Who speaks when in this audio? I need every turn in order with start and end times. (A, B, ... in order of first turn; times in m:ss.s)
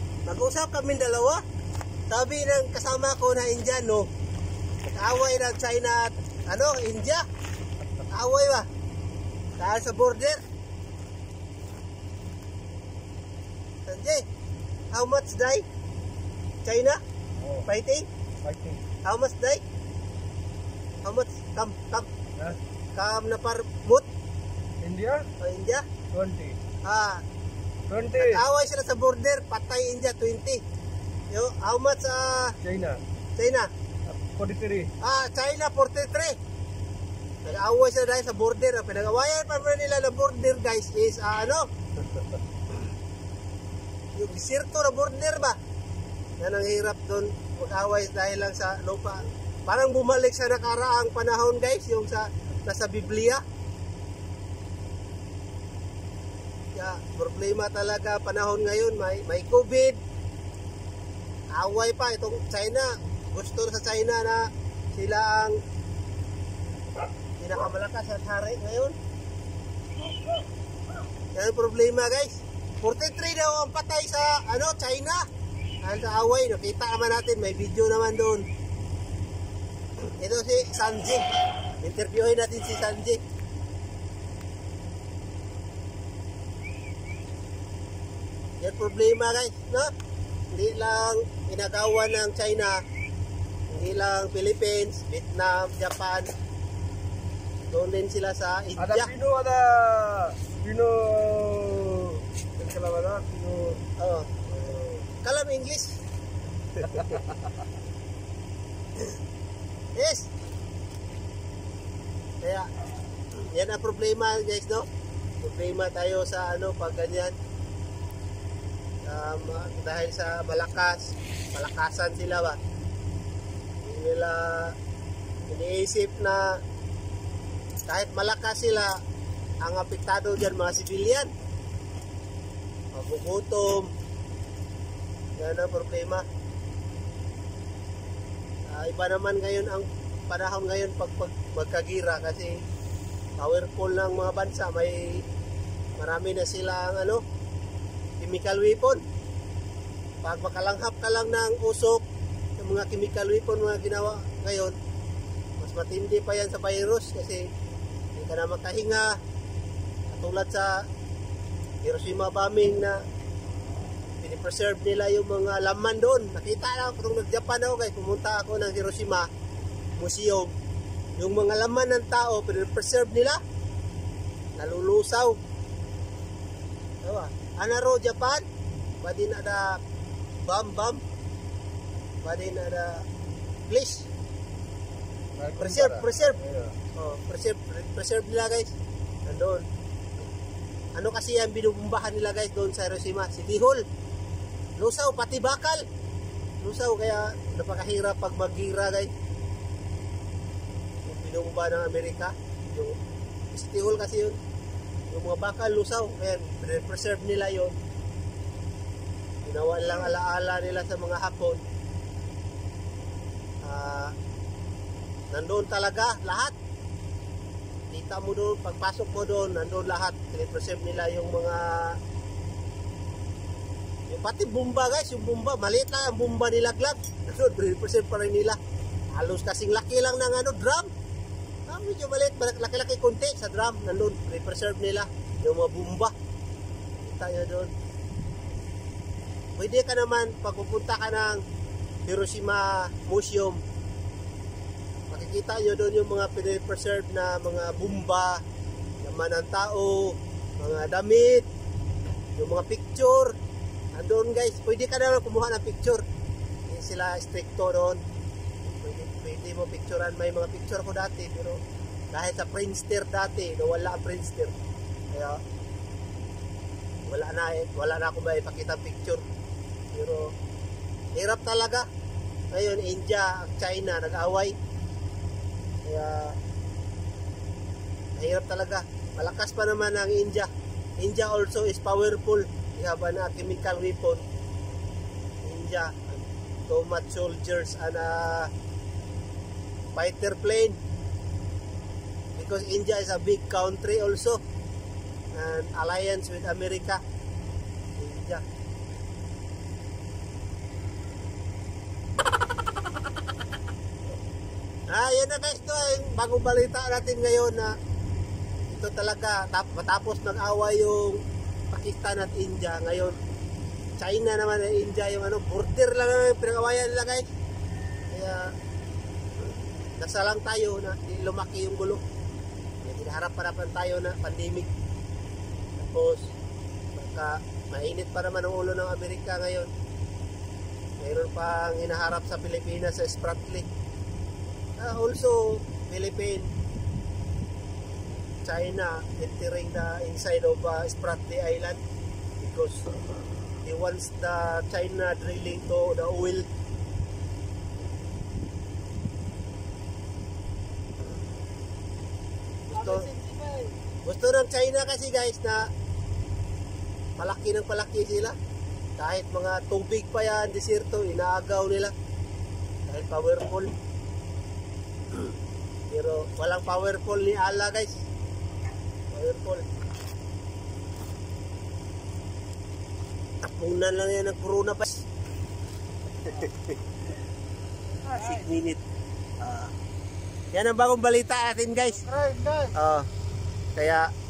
0:00.3-0:01.4 A
0:02.1-0:04.1 A
0:04.8-0:07.2 A
0:08.1-0:08.7 A
0:09.6-0:10.4 A
0:13.9-0:14.3 A
0:14.9-0:15.7 A
0:16.6-0:17.0 A
0:17.4-0:17.7 B
0:17.7-0:18.1 A
0:18.4-0:18.8 B
0:19.0-0:19.6 A
0:21.0-0:22.1 A
0:23.0-0:24.1 A
0:24.8-0:25.2 B
0:25.4-0:25.9 A
0:26.1-0:26.6 B
0:26.8-0:27.2 A
0:27.9-0:28.4 B
0:28.2-0:30.6 A
0:31.3-0:32.6 A
0:32.6-0:33.0 B
0:33.4-0:33.7 A
0:34.1-0:34.9 B
0:35.0-0:36.4 A
0:37.4-0:41.7 A
0:44.2-0:45.6 A
0:46.4-0:53.4 A
0:56.8-1:00.0 A
1:01.5-1:05.6 A
1:07.4-1:09.0 A
1:11.4-1:15.3 A
1:15.8-1:18.5 A
1:20.2-1:21.3 A
1:21.8-1:23.2 A
1:28.6-1:29.9 A
1:30.5-1:32.8 A
1:33.7-1:36.3 A
1:37.7-1:39.1 A
1:38.8-1:43.8 B
1:44.0-1:46.0 A
1:46.8-1:47.3 B
1:50.0-1:50.3 A
1:52.4-1:52.7 A
1:53.5-1:54.9 A
1:55.4-1:57.4 A
1:59.0-2:02.6 A
2:03.8-2:04.8 A
2:05.5-2:06.6 A
2:07.9-2:09.0 A
2:09.6-2:11.3 A
2:12.9-2:13.9 A
2:15.4-2:16.2 A
2:18.7-2:22.6 A
2:23.4-2:25.2 A
2:26.0-2:27.2 A
2:28.2-2:29.0 A
2:30.2-2:32.0 A
2:32.6-2:34.8 A
2:35.6-2:37.5 A
2:38.2-2:39.2 A
2:40.1-2:40.9 A
2:41.8-2:43.0 A
2:44.2-2:49.3 A
2:50.0-2:50.5 A
2:51.2-2:53.4 A
2:54.6-2:55.4 A
2:57.0-2:58.4 A
2:59.0-2:59.8 A
3:00.5-3:01.0 A
3:02.2-3:03.1 A
3:03.7-3:04.1 A
3:05.4-3:06.8 B
3:05.6-3:06.4 A
3:07.0-3:08.7 A
3:09.3-3:09.6 A
3:11.0-3:13.9 A
3:14.8-3:15.8 A
3:16.6-3:19.1 A
3:21.1-3:23.0 A
3:23.5-3:24.4 A
3:25.1-3:27.8 A
3:29.4-3:31.6 A
3:33.6-3:34.2 A
3:35.3-3:36.6 A
3:37.9-3:42.0 A
3:44.1-3:48.6 A
3:49.1-3:50.9 A
3:51.7-3:56.1 A
3:57.0-3:57.7 A
3:59.6-4:01.4 A
4:02.0-4:03.6 A
4:05.1-4:08.4 A
4:09.0-4:11.5 A
4:12.4-4:13.4 A
4:13.9-4:16.0 A
4:16.7-4:18.0 A
4:18.6-4:21.6 A
4:22.1-4:24.5 A
4:25.1-4:25.4 A
4:27.1-4:29.2 A
4:29.9-4:30.3 A
4:31.1-4:31.9 A
4:32.5-4:34.6 A
4:35.8-4:36.4 A
4:38.2-4:44.3 A
4:45.4-4:48.5 A
4:50.0-4:50.8 A
4:52.4-4:54.4 A
4:55.4-4:57.0 A
4:58.0-4:58.4 A
5:04.9-5:07.8 A
5:08.7-5:13.2 A
5:14.0-5:17.3 A
5:18.1-5:18.6 A
5:20.0-5:22.0 A
5:22.8-5:24.7 A
5:25.8-5:26.3 A
5:27.0-5:29.7 A
5:31.0-5:33.7 A
5:34.8-5:36.5 A
5:38.4-5:41.8 A
5:42.4-5:42.9 A
5:43.6-5:46.5 A
5:52.7-5:53.1 A
5:53.2-5:53.6 B
5:54.0-5:55.7 A
5:57.2-5:58.4 A
5:59.0-6:01.9 A
6:02.9-6:03.7 A
6:05.9-6:08.0 A
6:09.1-6:09.6 A
6:13.4-6:15.1 A
6:16.2-6:16.8 A
6:18.0-6:18.8 A
6:19.4-6:19.7 A
6:20.5-6:22.1 A
6:22.7-6:23.1 A
6:23.8-6:24.1 A